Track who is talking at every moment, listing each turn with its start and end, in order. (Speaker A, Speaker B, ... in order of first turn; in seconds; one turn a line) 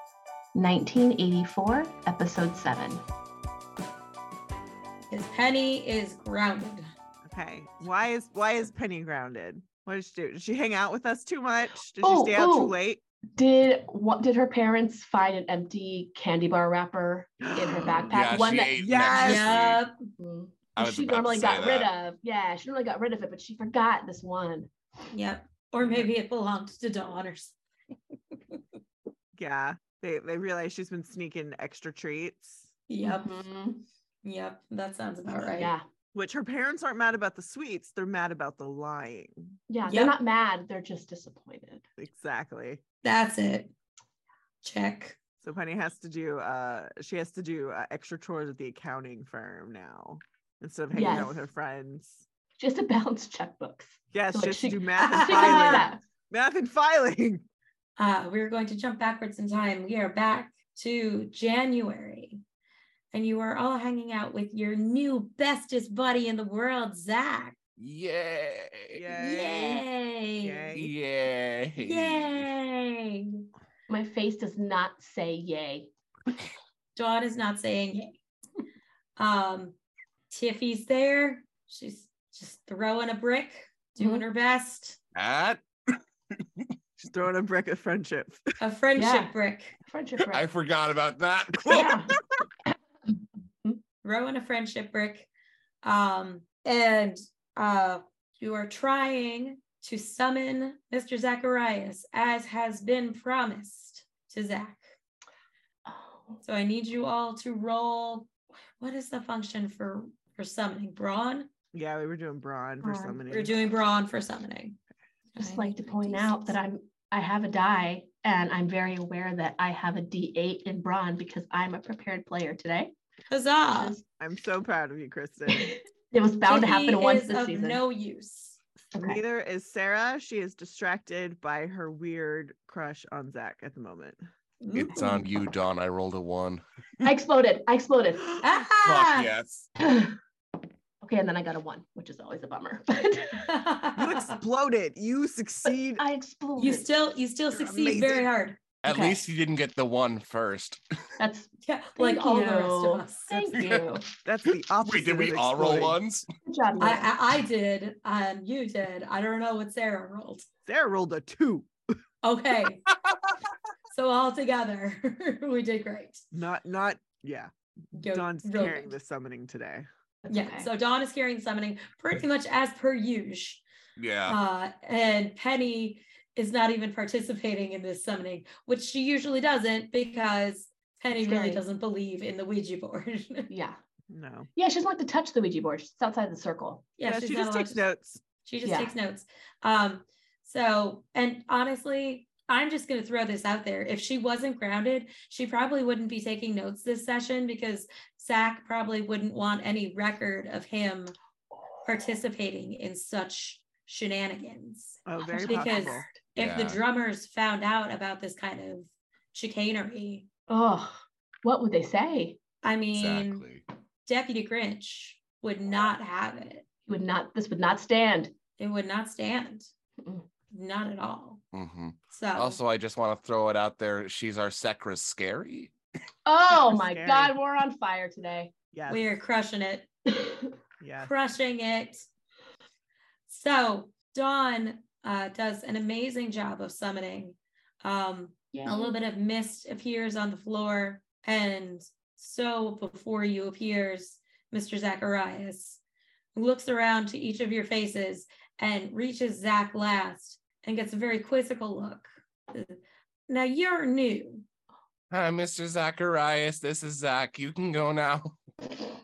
Speaker A: 0.5-3.0
Speaker B: 5.1-6.8
Speaker C: 7.2-13.0
Speaker A: 12.0-12.7
Speaker A: 13.3-18.7
Speaker C: 17.4-18.1
Speaker D: 18.1-19.8
Speaker C: 18.7-19.5
Speaker B: 19.1-20.1
Speaker A: 20.2-24.7
Speaker D: 20.8-21.9
Speaker B: 25.1-27.6
Speaker C: 25.8-26.1
Speaker C: 29.4-32.7
Speaker B: 32.9-33.5
Speaker A: 33.0-33.8
Speaker B: 34.2-35.7
Speaker A: 35.4-35.9
Speaker C: 36.1-39.6
Speaker A: 39.7-41.9
Speaker B: 39.9-40.2
Speaker C: 42.0-42.8
Speaker B: 43.0-43.7
Speaker B: 44.6-45.2
Speaker C: 45.4-52.3
Speaker A: 50.9-51.5
Speaker A: 52.6-56.0
Speaker C: 54.1-57.4
Speaker B: 55.0-55.9
Speaker B: 58.0-62.4
Speaker B: 63.1-67.6
Speaker D: 67.8-69.0
Speaker C: 68.9-69.9
Speaker B: 69.2-70.7
Speaker C: 70.4-70.9
Speaker D: 70.8-72.5
Speaker B: 71.8-73.5
Speaker A: 73.9-75.9
Speaker B: 77.0-78.1
Speaker B: 79.2-79.8
Speaker B: 80.3-85.0
Speaker A: 84.0-84.2
Speaker D: 85.2-86.0
Speaker C: 87.0-88.4
Speaker B: 88.6-89.8
Speaker A: 89.0-89.3
Speaker A: 89.9-90.4
Speaker D: 90.3-92.1
Speaker A: 91.7-92.1
Speaker B: 91.7-92.1
Speaker B: 94.0-95.3
Speaker B: 95.8-104.9
Speaker A: 105.9-106.4
Speaker B: 106.4-111.5
Speaker C: 111.7-113.6
Speaker A: 112.8-113.2
Speaker B: 113.3-114.8
Speaker B: 115.3-116.6
Speaker A: 115.4-122.9
Speaker B: 123.3-124.0
Speaker A: 123.7-124.0
Speaker C: 124.2-125.8
Speaker A: 125.5-127.8
Speaker B: 126.5-128.6
Speaker A: 128.9-129.2
Speaker C: 128.9-134.2
Speaker B: 134.6-135.2
Speaker D: 134.7-137.1
Speaker A: 137.0-138.3
Speaker B: 138.4-139.3
Speaker D: 138.8-139.7
Speaker A: 139.8-140.1
Speaker A: 141.0-143.5
Speaker B: 143.4-144.4
Speaker C: 144.0-146.0
Speaker A: 145.7-146.9
Speaker B: 146.6-149.2
Speaker C: 147.5-148.3
Speaker D: 148.8-150.8
Speaker A: 151.2-154.1
Speaker B: 151.6-153.6
Speaker D: 153.5-153.8
Speaker C: 154.2-156.0
Speaker D: 154.8-156.3
Speaker A: 156.5-157.1
Speaker B: 156.8-160.5
Speaker C: 160.7-161.7
Speaker B: 162.2-162.8
Speaker B: 163.9-166.2
Speaker C: 166.3-169.9
Speaker B: 167.9-169.0
Speaker A: 170.2-170.7
Speaker B: 170.3-173.6
Speaker D: 174.0-174.4
Speaker B: 174.3-183.5
Speaker A: 181.1-181.6
Speaker A: 183.5-183.8
Speaker C: 184.1-184.5
Speaker A: 184.6-186.9
Speaker B: 187.0-187.9
Speaker C: 187.0-188.2
Speaker B: 188.4-201.1
Speaker A: 188.6-188.9
Speaker B: 201.8-210.3
Speaker C: 205.1-206.1
Speaker A: 205.2-206.2
Speaker D: 206.4-206.8
Speaker A: 210.5-212.4
Speaker B: 212.6-213.4
Speaker D: 212.9-213.6
Speaker B: 214.1-216.7
Speaker A: 216.9-218.3
Speaker B: 218.6-219.7
Speaker A: 220.0-220.3
Speaker B: 220.5-221.4
Speaker D: 221.5-225.7
Speaker B: 222.1-222.6
Speaker A: 226.3-228.5
Speaker C: 226.5-227.4
Speaker C: 228.7-229.2
Speaker B: 228.9-229.9
Speaker C: 230.8-231.1
Speaker B: 231.0-232.1
Speaker B: 233.3-245.8
Speaker A: 238.5-239.0
Speaker B: 246.3-254.5
Speaker D: 255.1-258.4